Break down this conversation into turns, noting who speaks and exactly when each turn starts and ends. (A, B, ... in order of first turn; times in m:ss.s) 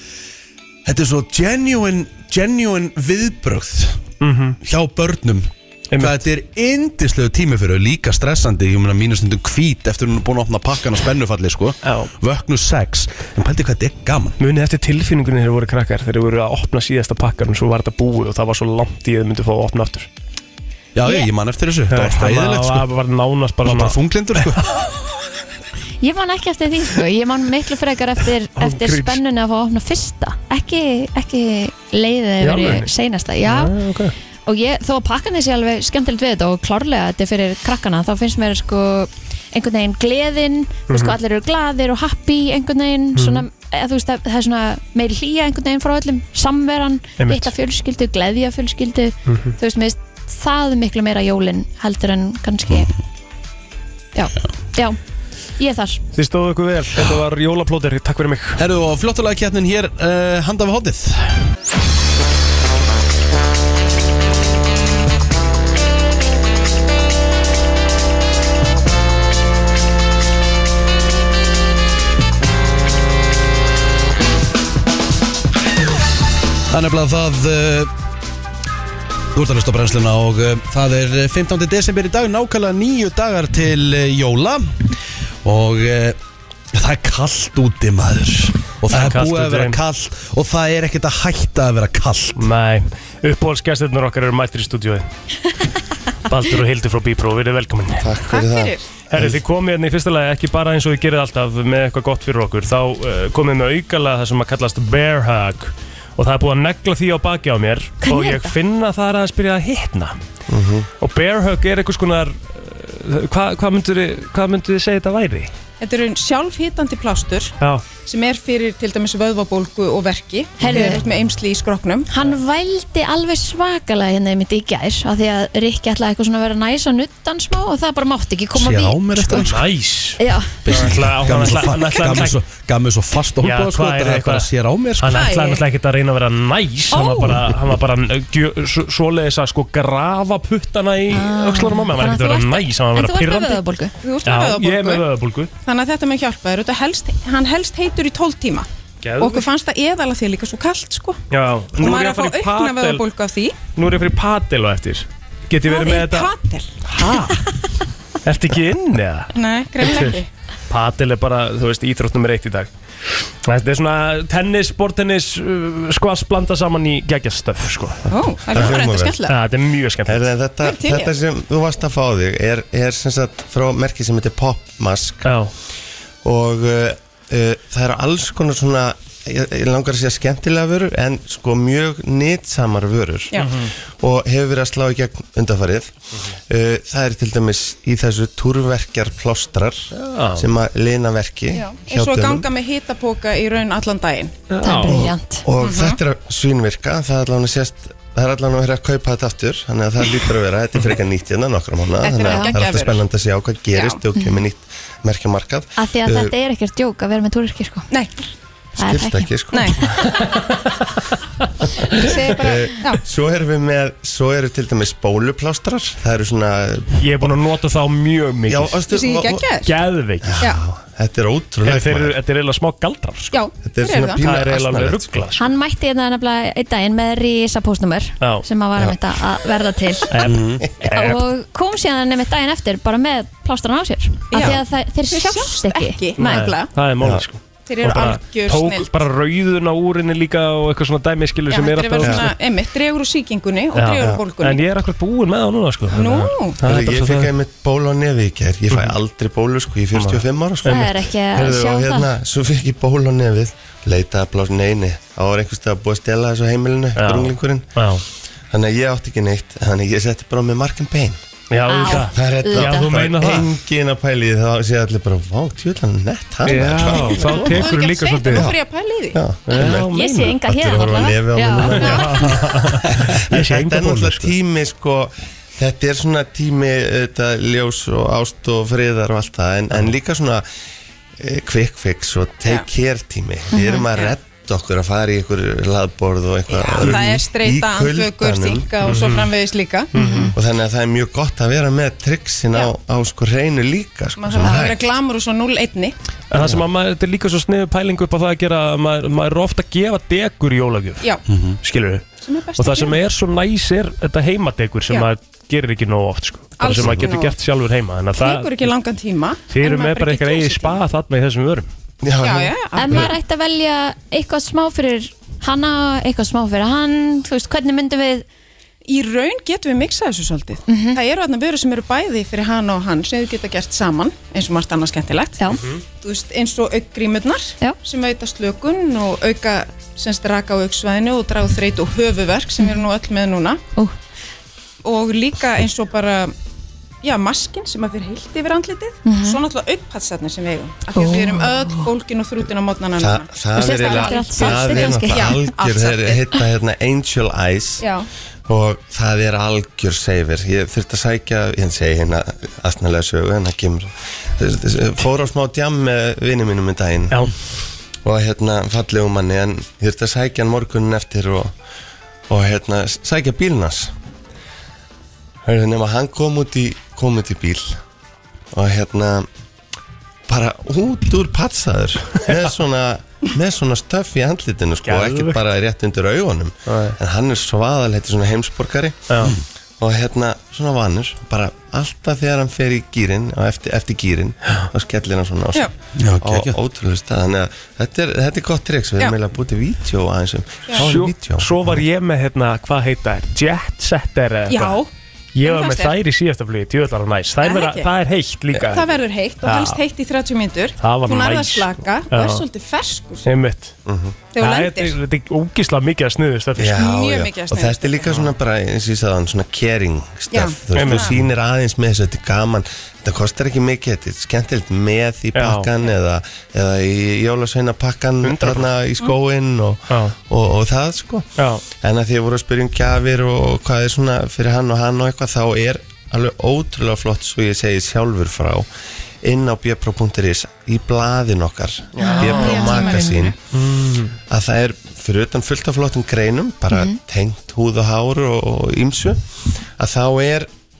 0:00.8-0:04.0 A
0:04.2-0:04.6 B
0:04.6-0:14.4 A
0:05.9-0:06.2 B
0:11.8-0:12.1 B
0:14.4-0:20.1 B
0:21.0-0:22.9 A
0:21.9-0:24.6 B
0:23.6-0:24.6 A
0:26.0-0:33.8 C
0:28.6-0:29.2 B
0:32.4-0:32.9 B
0:33.4-0:34.1 B
0:34.5-0:52.9 C
0:40.9-0:41.2 B
0:43.2-0:43.5 B
0:47.2-0:47.5 B
0:49.3-0:49.6 B
0:54.2-0:55.0 C
0:55.6-0:56.0 C
0:56.1-0:58.6 B
0:58.6-1:01.5 A
1:16.7-1:17.9 A
1:19.3-1:26.2 A
1:26.7-1:32.5 A
1:28.9-1:29.8 B
1:32.4-1:35.1 B
1:36.3-1:38.1 B
1:38.0-1:39.4 D
1:38.3-1:39.0 E
1:39.1-1:50.2 B
1:48.0-1:48.5 C
1:50.5-1:50.9 D
1:51.0-1:55.5 B
1:55.8-2:02.1 E
2:00.6-2:01.0 C
2:02.1-2:09.5 C
2:08.5-2:09.6 A
2:09.3-2:12.4 B
2:10.2-2:10.6 C
2:10.6-2:15.3 A
2:13.4-2:23.6 B
2:15.1-2:15.6 E
2:16.9-2:17.4 C
2:21.1-2:23.9 C
2:24.0-2:25.1 E
2:24.2-2:25.5 B
2:25.6-2:28.7 E
2:29.0-2:29.5 B
2:29.2-2:31.2 E
2:31.3-2:33.0 B
2:31.8-2:33.6 E
2:33.8-2:36.3 B
2:35.6-2:37.3 E
2:36.9-2:37.4 B
2:38.2-2:42.7 B
2:39.3-2:40.3 E
2:43.4-2:48.0 B
2:48.1-2:49.3 E
2:48.5-2:49.2 D
2:48.5-2:50.3 B
2:50.1-2:55.3 D
2:50.6-2:51.2 E
2:55.2-2:55.5 B
2:56.2-3:05.9 D
3:03.4-3:03.7 B
3:06.5-3:12.5 D
3:09.9-3:10.5 B
3:11.5-3:14.4 E
3:14.5-3:15.1 B
3:14.6-3:15.4 C
3:14.9-3:26.3 D
3:15.6-3:16.0 E
3:22.0-3:23.0 E
3:22.2-3:22.6 C
3:23.7-3:24.0 E
3:25.8-3:27.9 C
3:28.8-3:29.3 C
3:28.8-3:30.0 D
3:29.5-3:29.8 E
3:31.9-3:33.0 E
3:32.3-3:37.3 D
3:37.0-3:38.8 B
3:38.5-3:39.5 D
3:38.9-3:39.7 E
3:39.6-3:40.4 B
3:40.3-3:42.2 D
3:41.6-3:43.4 B
3:43.3-3:44.2 E
3:43.6-3:45.3 D
3:44.2-3:45.4 B
3:45.4-3:50.1 C
3:50.1-3:51.2 B
3:50.2-3:50.6 A
3:50.8-3:56.0 C
3:54.3-3:56.7 E
3:56.2-4:02.3 B
3:57.7-3:58.9 E
4:01.5-4:04.6 E
4:02.0-4:02.3 D
4:03.7-4:07.3 B
4:05.9-4:06.6 E
4:06.6-4:17.7 D
4:10.0-4:10.9 B
4:10.6-4:12.1 C
4:17.0-4:18.0 B
4:18.5-4:21.2 D
4:21.5-4:23.5 B
4:21.7-4:23.0 C
4:22.1-4:27.6 D
4:26.5-4:28.5 B
4:26.7-4:29.2 E
4:29.1-4:40.5 D
4:29.5-4:30.4 B
4:29.6-4:32.3 C
4:31.8-4:34.3 B
4:31.8-4:32.4 E
4:41.2-4:48.7 D
4:43.5-4:43.9 C
4:43.9-4:44.2 E
4:46.5-4:49.9 E
4:48.8-4:49.3 B
4:49.9-4:50.3 C
4:50.0-4:50.3 B
4:50.3-4:54.8 D
4:54.2-4:56.0 E
4:56.3-5:08.7 B
4:56.4-4:56.6 D
5:01.3-5:01.6 A
5:02.2-5:03.0 E
5:06.6-5:07.4 E
5:06.8-5:07.1 D
5:08.2-5:10.8 E
5:09.5-5:11.7 B
5:12.0-5:13.1 D
5:12.2-5:13.1 E
5:12.8-5:18.3 C
5:18.9-5:33.6 E
5:20.7-5:21.0 C
5:25.5-5:25.8 B
5:34.8-5:36.4 E
5:37.0-5:46.4 E
5:39.0-5:39.4 C
5:41.0-5:41.9 C
5:43.0-5:47.9 D
5:43.6-5:45.4 C
5:47.8-5:48.1 E
5:48.5-5:57.3 D
5:58.0-6:01.5 D
6:02.3-6:03.9 D
6:05.4-6:07.8 D
6:08.5-6:09.3 D
6:10.3-6:19.1 D
6:14.8-6:15.4 B
6:16.7-6:17.0 B
6:19.1-6:19.4 B
6:19.8-6:31.8 D
6:26.0-6:26.6 A
6:30.8-6:34.8 B
6:34.5-6:34.9 E
6:35.4-6:39.8 B
6:35.4-6:36.0 E
6:37.4-6:37.9 E
6:38.7-6:43.3 E
6:40.8-6:42.5 B
6:43.2-6:43.8 B
6:43.9-6:44.2 D
6:44.3-6:45.0 E
6:44.4-6:46.8 B
6:46.6-7:08.7 D
6:46.7-6:48.2 E
6:48.1-6:48.3 B
6:50.3-6:51.2 E
6:50.7-6:51.2 B
6:55.4-6:55.7 B
6:58.2-6:58.7 B
6:59.9-7:00.2 B
7:01.4-7:01.6 B
7:09.2-7:13.4 D
7:12.0-7:12.6 B
7:12.0-7:13.2 C
7:12.1-7:13.3 E
7:13.5-7:14.2 B
7:14.3-7:19.2 D
7:16.7-7:17.0 C
7:19.8-7:20.5 D